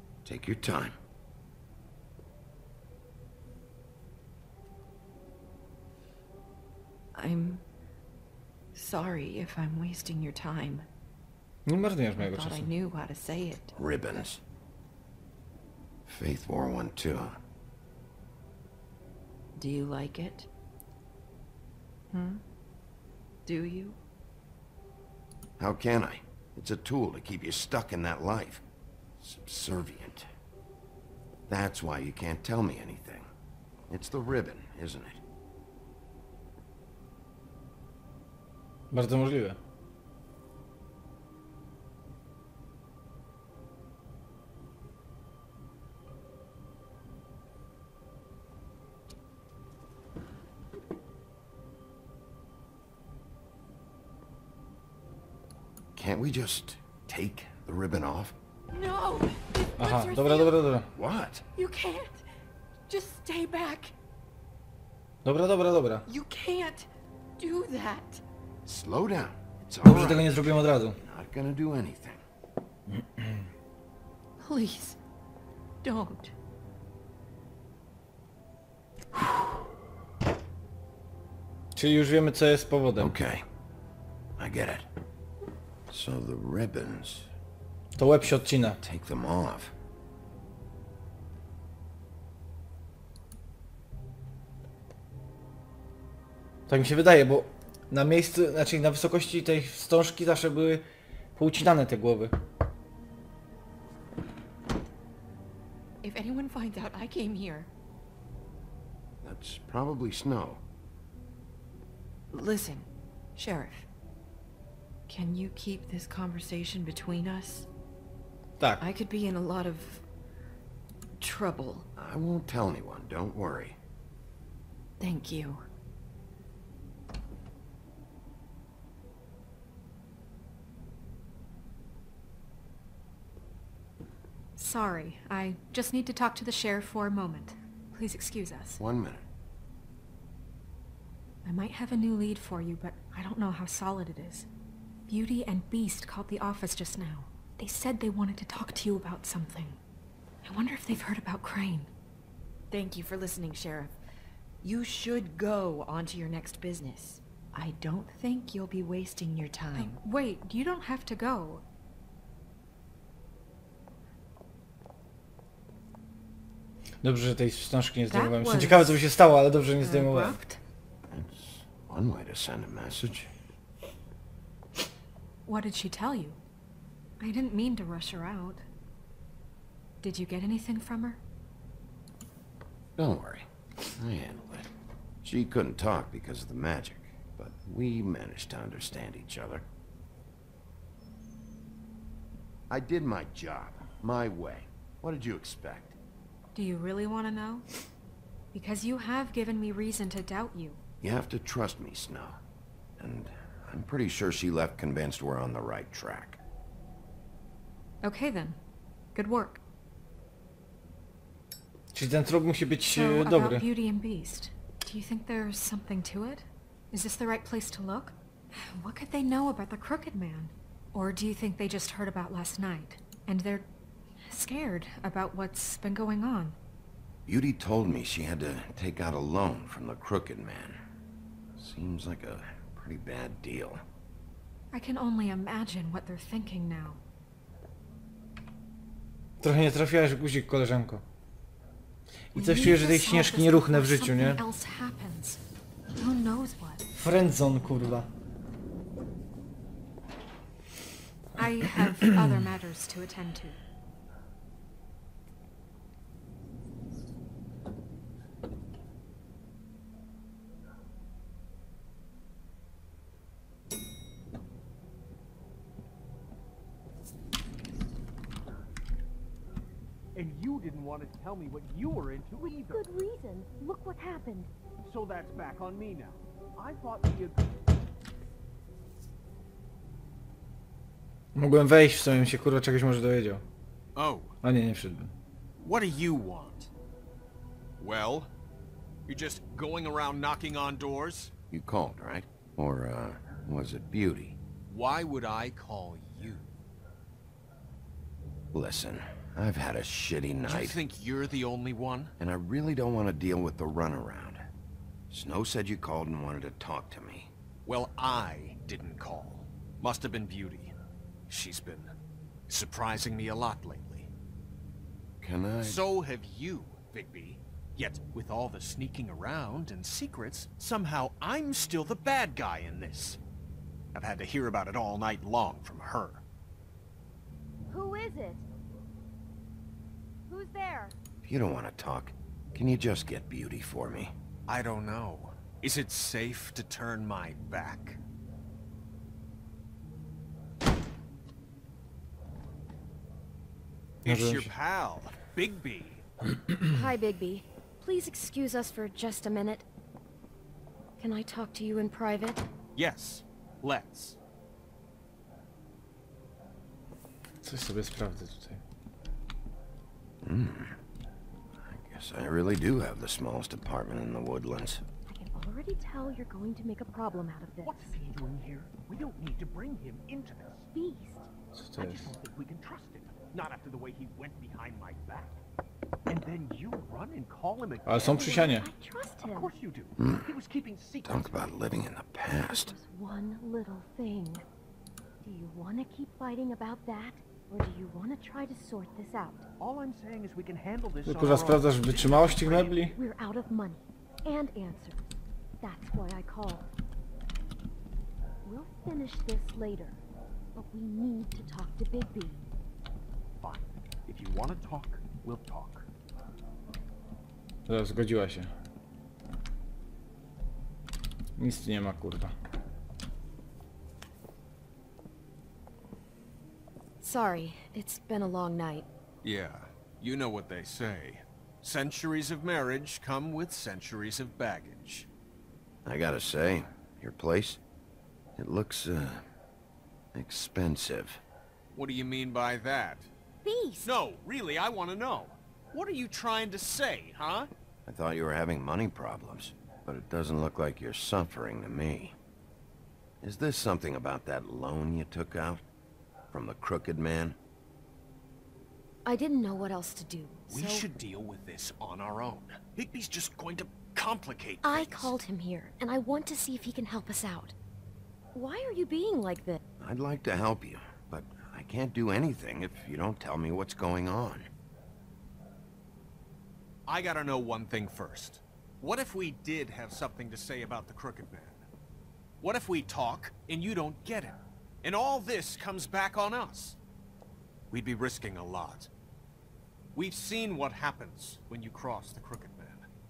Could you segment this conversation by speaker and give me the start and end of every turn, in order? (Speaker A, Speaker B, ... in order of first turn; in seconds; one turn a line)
Speaker A: 0.2-0.9
Speaker B: 7.1-7.6
Speaker B: 8.7-10.9
Speaker C: 11.7-12.7
Speaker B: 12.2-13.7
Speaker A: 13.8-14.4
Speaker A: 16.1-17.4
Speaker B: 19.6-20.5
Speaker B: 22.1-22.4
Speaker B: 23.4-24.0
Speaker A: 25.6-28.6
Speaker A: 29.2-30.3
Speaker A: 31.5-33.3
Speaker A: 33.9-35.2
Speaker C: 38.9-39.6
Speaker A: 56.0-58.4
Speaker B: 58.7-60.5
Speaker C: 59.8-60.9
Speaker A: 60.9-61.4
Speaker B: 61.5-62.2
Speaker B: 62.9-63.9
Speaker C: 65.2-66.0
Speaker B: 66.1-68.2
Speaker A: 68.6-72.2
Speaker C: 69.8-71.0
Speaker C: 72.9-73.5
Speaker B: 74.4-75.0
Speaker B: 75.8-76.3
Speaker C: 81.8-83.1
Speaker A: 83.0-83.4
Speaker A: 84.4-84.9
Speaker A: 85.9-87.3
Speaker C: 88.0-88.8
Speaker A: 88.8-89.7
Speaker C: 96.7-100.8
Speaker C: 101.3-102.3
Speaker B: 106.0-107.7
Speaker A: 109.2-110.6
Speaker B: 112.3-113.9
Speaker B: 115.1-117.7
Speaker B: 118.8-120.0
Speaker B: 121.2-121.9
Speaker A: 122.0-123.8
Speaker B: 125.0-125.7
Speaker D: 134.6-138.8
Speaker A: 138.8-139.2
Speaker D: 141.4-144.5
Speaker D: 145.1-149.8
Speaker D: 150.4-151.9
Speaker B: 152.7-154.0
Speaker B: 154.6-160.0
Speaker D: 159.7-161.6
Speaker C: 167.0-170.4
Speaker D: 168.1-169.0
Speaker D: 169.8-170.6
Speaker A: 171.1-173.3
Speaker D: 175.4-176.4
Speaker D: 177.2-178.6
Speaker D: 180.0-181.2
Speaker A: 183.0-184.7
Speaker A: 185.2-189.7
Speaker A: 192.7-196.0
Speaker D: 196.5-197.6
Speaker D: 198.5-200.8
Speaker A: 201.0-202.4
Speaker A: 203.0-206.4
Speaker D: 208.0-208.6
Speaker D: 209.1-209.6
Speaker C: 211.9-213.6
Speaker D: 212.9-223.7
Speaker D: 224.2-226.6
Speaker A: 227.2-230.8
Speaker A: 231.6-233.8
Speaker D: 234.7-237.0
Speaker C: 239.4-241.0
Speaker C: 242.3-244.4
Speaker D: 242.3-245.4
Speaker D: 245.9-246.9
Speaker C: 246.9-248.1
Speaker D: 251.4-253.6
Speaker C: 251.8-252.1
Speaker E: 270.1-272.9
Speaker F: 272.4-274.5
Speaker E: 274.8-277.7
Speaker C: 281.4-283.4
Speaker G: 283.9-284.3
Speaker C: 284.4-285.1
Speaker G: 285.6-286.7
Speaker G: 287.8-288.3
Speaker G: 289.1-291.3
Speaker A: 291.5-294.4
Speaker G: 294.7-296.5
Speaker A: 298.5-300.8
Speaker G: 300.4-302.1
Speaker A: 302.2-304.5
Speaker A: 305.1-307.3
Speaker G: 307.6-310.7
Speaker G: 311.3-311.9
Speaker G: 312.5-314.1
Speaker A: 315.2-315.8
Speaker G: 315.6-323.2
Speaker G: 323.9-326.2
Speaker F: 327.7-328.4
Speaker F: 330.3-330.9
Speaker A: 331.2-334.1
Speaker G: 334.5-338.0
Speaker C: 344.0-344.5
Speaker G: 344.0-346.0
Speaker F: 346.7-349.6
Speaker F: 351.0-352.4
Speaker G: 352.8-354.2
Speaker C: 357.4-358.6
Speaker A: 360.2-360.8
Speaker A: 361.6-364.8
Speaker F: 365.1-368.0
Speaker E: 367.6-370.7
Speaker F: 370.7-371.3
Speaker C: 371.5-372.1
Speaker E: 371.8-375.4
Speaker E: 376.1-378.5
Speaker C: 377.9-378.7
Speaker F: 378.0-379.5
Speaker E: 379.2-381.5
Speaker A: 380.0-380.3
Speaker A: 381.0-382.8
Speaker F: 382.5-384.4
Speaker F: 385.2-389.5
Speaker E: 389.6-392.9
Speaker C: 391.0-392.9
Speaker F: 392.9-395.0
Speaker F: 395.6-396.6
Speaker F: 398.4-400.0
Speaker F: 400.5-402.4
Speaker E: 403.4-405.9
Speaker C: 407.7-408.5
Speaker C: 411.4-412.3
Speaker F: 417.0-418.9
Speaker G: 419.2-425.1
Speaker A: 425.8-427.6
Speaker A: 428.4-429.2
Speaker A: 430.1-431.2
Speaker G: 431.7-433.1
Speaker F: 433.4-434.0
Speaker G: 433.8-437.5
Speaker A: 437.9-442.1
Speaker A: 443.2-445.6
Speaker A: 446.3-447.4
Speaker F: 449.0-450.9
Speaker G: 450.5-452.7
Speaker E: 452.7-453.9
Speaker G: 453.7-455.1
Speaker F: 454.6-457.5
Speaker F: 458.3-459.6
Speaker A: 459.8-464.5
Speaker G: 466.9-471.6
Speaker G: 472.4-476.8
Speaker G: 477.7-478.9
Speaker G: 479.9-482.9